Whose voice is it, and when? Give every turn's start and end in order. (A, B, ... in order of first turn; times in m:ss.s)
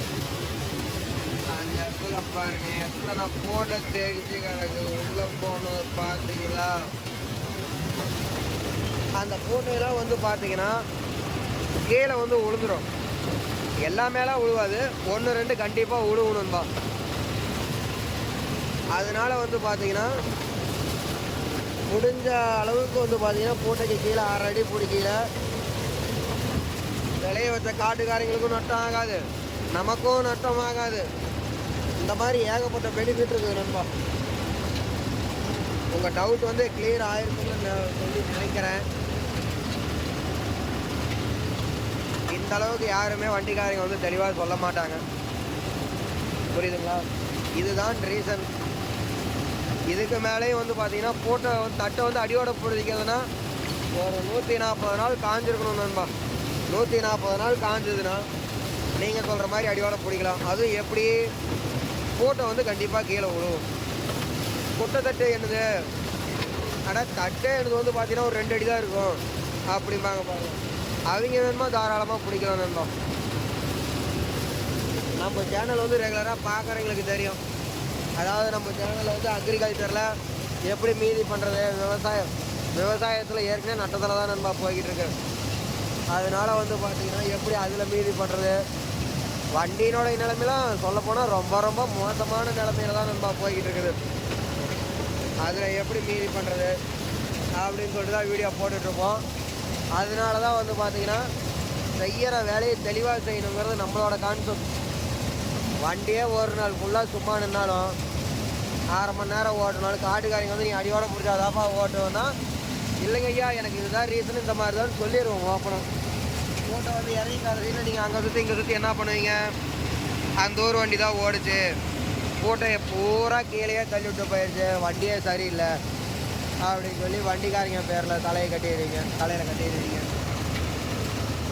0:01.5-0:06.9 A
0:09.2-0:10.8 A
0:11.9-0:12.9 A
0:13.8-0:16.7 A
0:19.0-0:20.1 A
0:21.9-0:25.2 A
0:27.2-0:29.2 A
0:29.8-0:31.1 A
0:32.0-0:33.9 A
0:35.9-0:38.8 A
0:42.3-0:45.0 A
0:46.5-0:47.0 A
0:47.6-0:48.5 A
0:49.9-0:53.2 A
0:54.0-0:56.1 A
0:56.7-0:58.2 A
0:59.0-1:01.2 A
1:02.2-1:03.7 A
1:04.8-1:05.6 A
1:06.9-1:10.6 A
1:11.1-1:12.9 A
1:15.2-1:17.4 A
1:18.2-1:20.1 A
1:20.7-1:25.1 A
1:26.1-1:28.6 A
1:29.6-1:34.0 A
1:35.4-1:36.8 A
1:37.6-1:39.2 A
1:40.0-1:41.2 A
1:42.0-1:44.6 A
1:45.8-1:48.0 A
1:48.9-1:52.3 A
1:53.0-1:55.9 A
1:56.7-1:59.5 A
2:00.4-2:01.7 A
2:02.4-2:05.7 A
2:06.6-2:10.1 A